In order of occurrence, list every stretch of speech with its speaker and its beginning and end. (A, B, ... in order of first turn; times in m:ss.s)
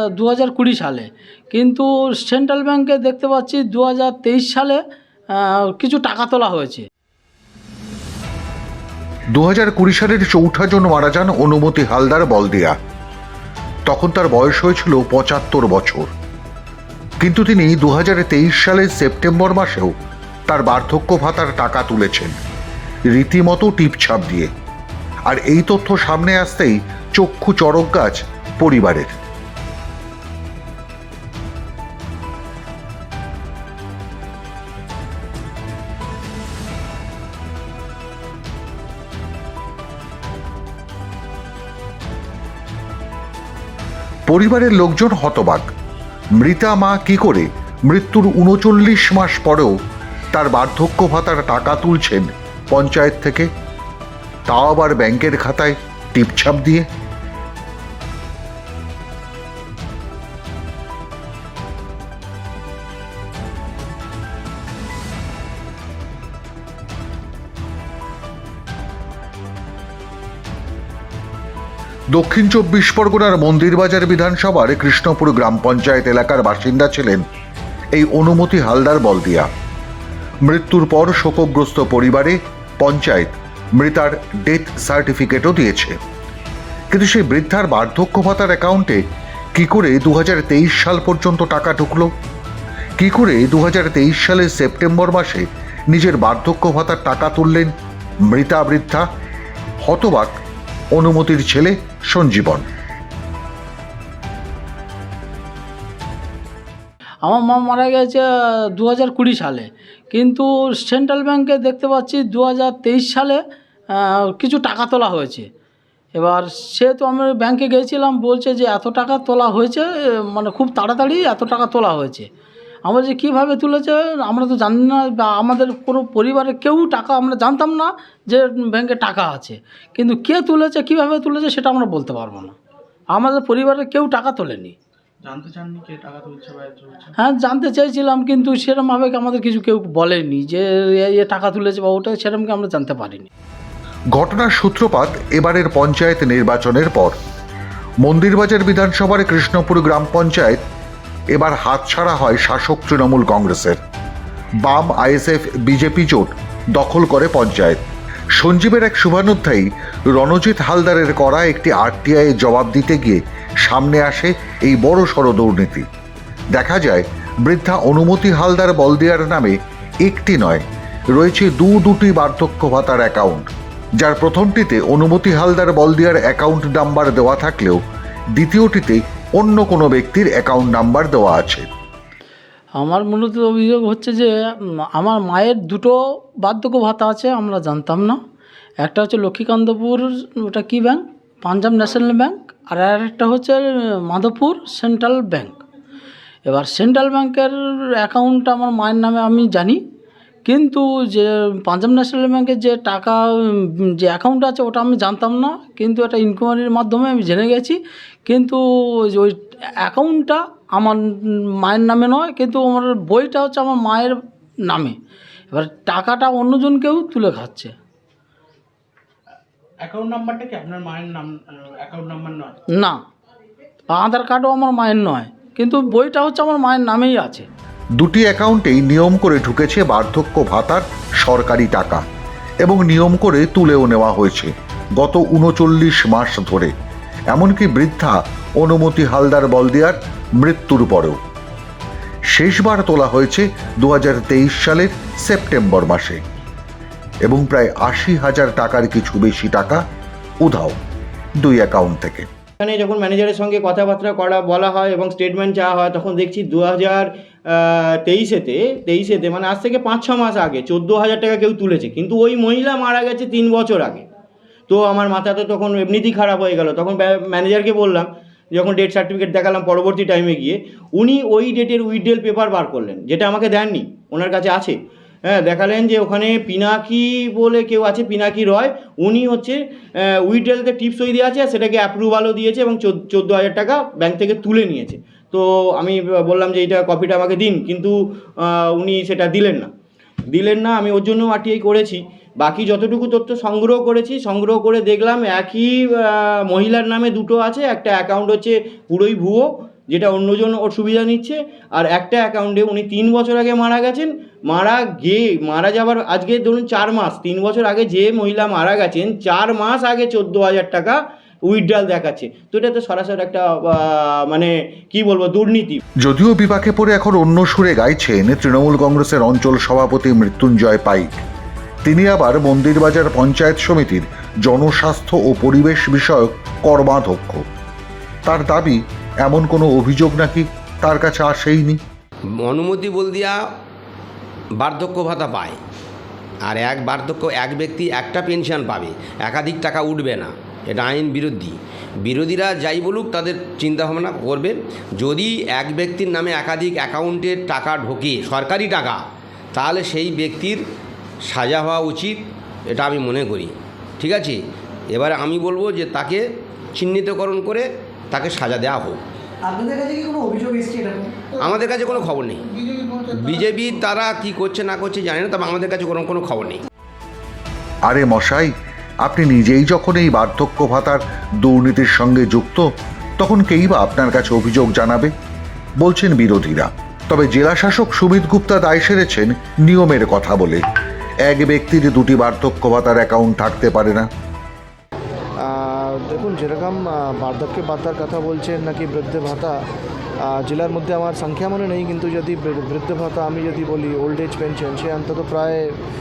0:00.2-0:04.8 A
0:05.3-0:06.9 A
0:09.3-0:12.8 B
0:13.9-0:16.1 B
0:17.2-0:19.9 B
0:20.5-0:22.4 B
0:23.1-0:24.5 B
0:25.3-0:29.2 B
0:44.3-0:45.7 B
0:46.4-0:49.8 B
0:50.3-0:53.5 B
0:54.5-0:56.9 B
1:12.1-1:17.2 B
1:17.9-1:19.5 B
1:20.5-1:26.0 B
1:26.9-1:29.0 B
1:29.6-1:32.1 B
1:33.0-1:37.7 B
1:38.3-1:39.1 B
1:39.8-1:40.4 B
1:41.0-1:42.7 B
1:47.2-1:53.4 A
1:53.9-1:55.5 A
1:56.2-2:02.3 A
2:02.9-2:12.6 A
2:13.2-2:14.8 A
2:15.2-2:17.2 C
2:17.2-2:23.3 A
2:24.1-2:27.2 B
2:28.0-2:30.6 B
2:31.3-2:33.8 B
2:34.6-2:37.8 B
2:38.4-2:45.9 B
2:46.5-2:57.8 B
2:58.4-3:01.7 B
3:02.8-3:08.2 A
3:08.8-3:15.6 A
3:16.5-3:19.8 A
3:20.4-3:35.0 A
3:35.5-3:37.7 A
3:39.8-3:42.6 C
3:42.7-3:43.0 A
3:43.9-3:47.5 A
3:48.0-3:52.0 B
3:52.6-3:56.7 B
3:57.3-4:01.2 B
4:02.3-4:06.2 B
4:07.3-4:09.8 B
4:10.4-4:10.8 B
4:11.4-4:12.3 B
4:12.6-4:24.1 D
4:24.7-4:34.8 D
4:35.3-4:49.7 D
4:50.3-5:15.8 D
5:16.0-5:21.2 B
5:21.8-5:27.4 B
5:28.3-5:31.8 B
5:32.4-5:33.4 E
5:34.6-5:35.6 E
5:36.5-5:49.0 E
5:49.5-5:50.6 E
5:51.3-5:54.4 E
5:54.9-5:56.2 E
5:56.8-5:59.0 E
5:59.5-6:01.1 F
6:01.4-6:02.4 E
6:02.6-6:03.0 F
6:03.1-6:06.6 E
6:07.9-6:08.5 B
6:09.0-6:12.7 B
6:13.2-6:15.1 B
6:15.8-6:20.6 B
6:21.3-6:24.1 B
6:25.5-6:29.5 G
6:30.3-6:35.7 G